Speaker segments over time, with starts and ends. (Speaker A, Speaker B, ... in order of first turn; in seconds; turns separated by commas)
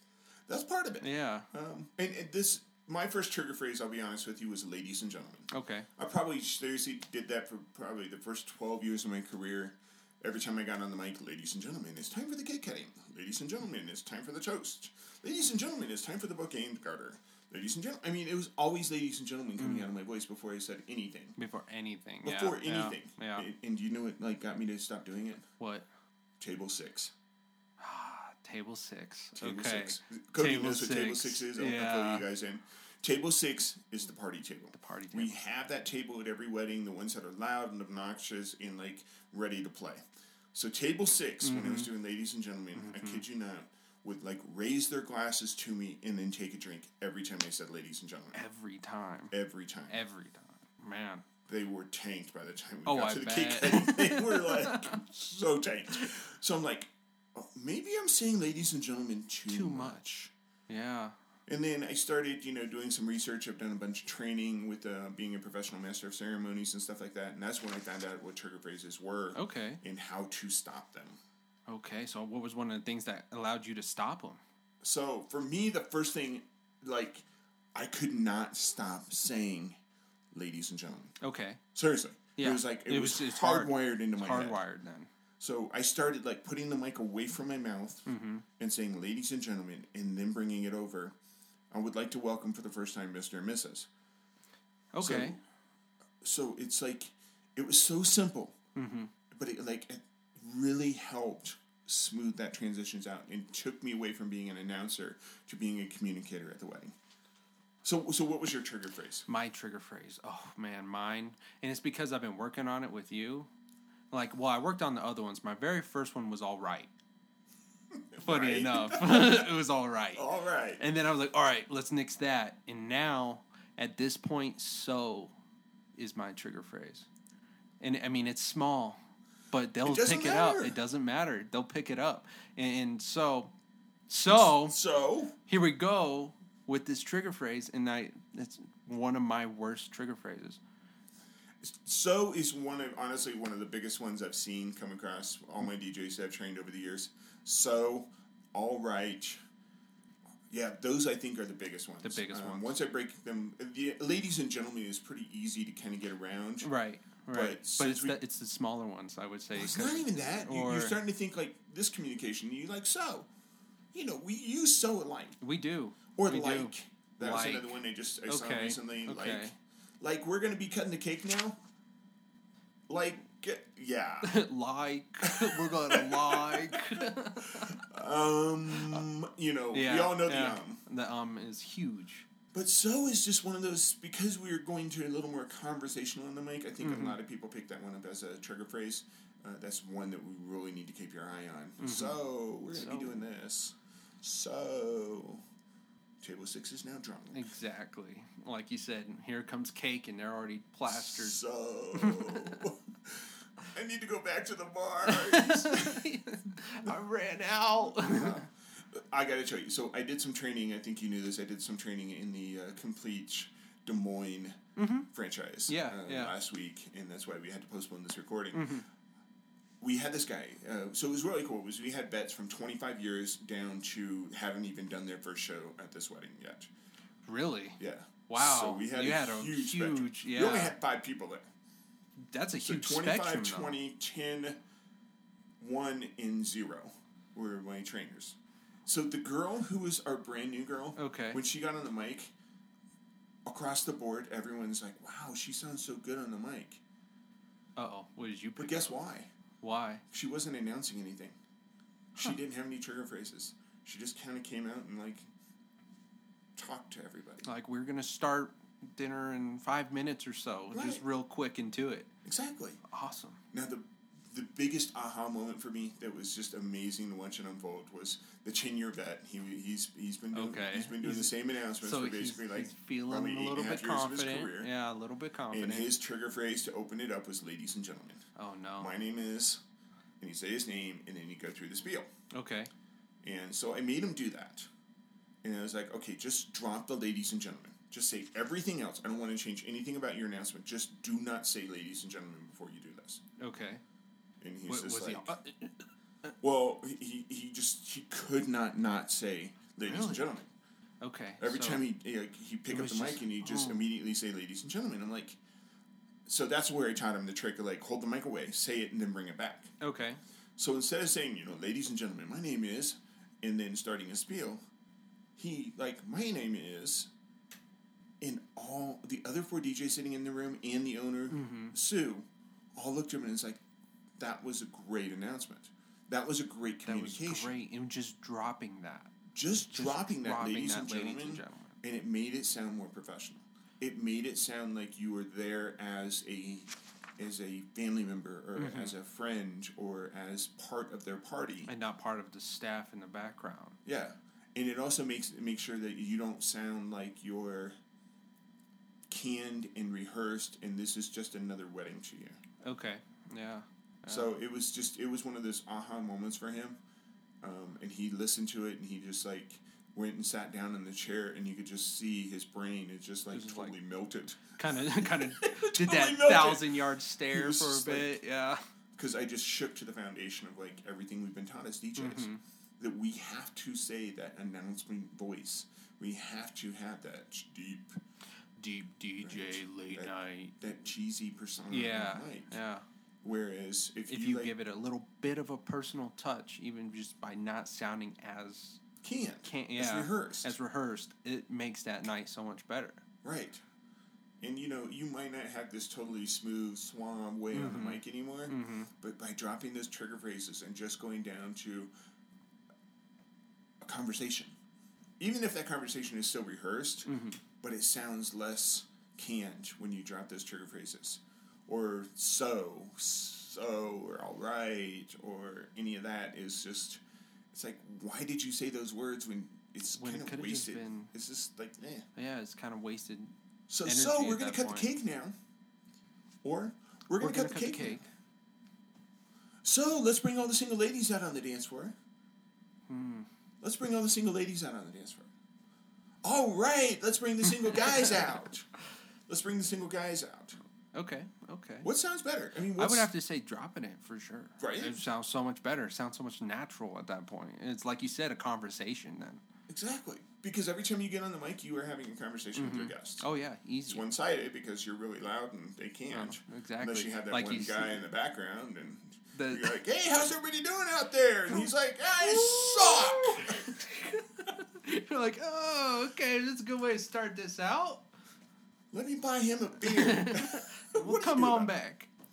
Speaker A: 0.5-21.4, Speaker B: 1.0-1.5, Speaker B: 5.5-5.9, Speaker B: 19.6-19.9, Speaker B: 21.4-23.5, Speaker A: 22.2-25.4, Speaker B: 25.6-25.9, Speaker A: 26.4-27.1, Speaker B: 27.8-32.3, Speaker A: 29.4-40.0, Speaker B: 34.7-35.4, Speaker A: 40.5-48.4, Speaker B: 41.4-41.9, Speaker B: 42.7-43.2, Speaker B: 48.3-49.3, Speaker A: 49.3-50.0, Speaker B: 49.9-51.2, Speaker A: 51.5-60.1, Speaker B: 52.9-55.0, Speaker B: 59.5-61.1, Speaker A: 61.5-71.2, Speaker B: 69.3-69.8, Speaker B: 71.7-74.4, Speaker A: 74.8-79.8, Speaker A: 80.3-81.2, Speaker B: 81.2-81.6, Speaker A: 81.8-84.6, Speaker B: 82.4-85.1, Speaker A: 85.4-88.1, Speaker B: 88.1-88.5, Speaker A: 88.6-91.2, Speaker A: 91.7-93.9, Speaker B: 94.9-95.4, Speaker A: 95.0-95.4, Speaker A: 96.2-98.5, Speaker B: 98.8-99.1, Speaker A: 99.3-106.9, Speaker A: 107.8-109.3, Speaker B: 109.3-113.5, Speaker B: 114.1-116.9, Speaker A: 118.1-119.5, Speaker B: 118.2-120.3, Speaker A: 120.2-120.8, Speaker B: 120.8-125.3, Speaker B: 126.0-127.1, Speaker B: 127.8-129.0, Speaker B: 129.5-133.5, Speaker A: 129.8-130.8, Speaker B: 134.1-134.8, Speaker A: 134.3-135.4, Speaker B: 135.5-140.6, Speaker A: 141.6-149.4, Speaker A: 150.5-156.7, Speaker B: 152.0-152.8, Speaker B: 156.6-161.0, Speaker A: 157.3-158.2, Speaker A: 159.5-163.3, Speaker A: 163.9-165.4, Speaker B: 165.4-169.6, Speaker A: 166.2-171.6, Speaker A: 172.9-174.4, Speaker B: 174.2-177.8, Speaker A: 175.2-176.9, Speaker A: 177.6-180.8, Speaker B: 178.7-179.1, Speaker B: 179.7-182.3, Speaker A: 182.5-195.4, Speaker B: 186.8-187.2, Speaker B: 191.8-192.2, Speaker B: 192.7-193.2, Speaker A: 196.2-197.4, Speaker B: 197.3-201.4, Speaker A: 200.9-206.1, Speaker B: 201.9-202.7, Speaker B: 205.1-208.4, Speaker A: 207.8-214.6, Speaker B: 214.8-215.1, Speaker A: 215.1-218.8, Speaker B: 215.7-216.3, Speaker B: 218.5-218.8, Speaker A: 219.8-226.7, Speaker B: 227.3-230.8, Speaker A: 227.8-231.5, Speaker B: 232.3-233.8, Speaker A: 232.6-234.6, Speaker A: 235.6-242.3, Speaker B: 241.0-241.4, Speaker A: 243.5-246.8, Speaker B: 247.8-249.0, Speaker A: 248.6-249.3, Speaker B: 249.6-250.0, Speaker A: 250.1-251.4, Speaker A: 252.2-255.3, Speaker A: 256.6-257.5, Speaker B: 257.4-262.1, Speaker A: 260.7-261.0, Speaker A: 262.2-262.8, Speaker B: 262.9-263.4, Speaker A: 263.5-274.7, Speaker B: 270.3-275.9, Speaker A: 275.5-278.2, Speaker B: 278.4-279.0, Speaker A: 278.8-279.6, Speaker A: 280.2-282.1, Speaker B: 282.3-282.7, Speaker A: 283.2-284.7, Speaker A: 285.4-293.2, Speaker B: 293.4-293.8, Speaker A: 294.4-295.4, Speaker B: 294.7-295.8, Speaker A: 296.4-300.5, Speaker B: 299.8-300.4, Speaker B: 301.0-301.9, Speaker A: 301.4-305.4, Speaker B: 302.7-303.9, Speaker A: 306.3-309.7, Speaker B: 309.8-310.2, Speaker A: 310.6-314.6, Speaker A: 315.4-317.1, Speaker A: 318.2-323.6, Speaker B: 321.3-321.8, Speaker A: 324.2-327.6, Speaker B: 326.9-329.1, Speaker A: 329.3-341.7, Speaker B: 329.7-331.8, Speaker B: 338.6-338.9, Speaker B: 341.7-343.8, Speaker A: 343.9-347.8, Speaker A: 349.1-352.4, Speaker B: 352.6-354.3, Speaker A: 354.1-356.8, Speaker A: 357.4-366.8, Speaker B: 363.3-363.8, Speaker B: 364.6-368.6, Speaker A: 367.3-368.2, Speaker A: 369.0-378.0, Speaker B: 372.0-372.4, Speaker B: 378.6-380.6, Speaker A: 379.2-382.6, Speaker B: 381.7-382.9, Speaker A: 383.2-384.5, Speaker B: 384.1-388.8, Speaker A: 389.0-390.6, Speaker B: 389.4-393.0, Speaker A: 393.2-393.6, Speaker A: 394.4-401.9, Speaker B: 397.5-398.9, Speaker A: 403.8-404.6, Speaker A: 405.2-407.1, Speaker B: 407.1-407.4, Speaker A: 407.6-417.0, Speaker A: 417.5-422.1, Speaker B: 419.9-421.1, Speaker B: 422.1-424.9, Speaker A: 423.7-425.3, Speaker A: 426.4-428.1, Speaker B: 427.2-428.1, Speaker A: 429.6-432.0, Speaker B: 432.9-433.3, Speaker A: 433.6-435.3, Speaker A: 436.2-438.7, Speaker B: 437.5-438.3, Speaker A: 439.3-440.6, Speaker B: 440.9-441.9, Speaker A: 441.8-443.1, Speaker B: 442.7-449.4, Speaker A: 444.6-445.0, Speaker A: 449.7-453.3, Speaker B: 452.6-454.1, Speaker A: 453.9-463.6, Speaker B: 456.1-458.0, Speaker B: 459.3-459.8, Speaker B: 462.2-468.1, Speaker A: 468.9-471.7, Speaker B: 469.8-472.1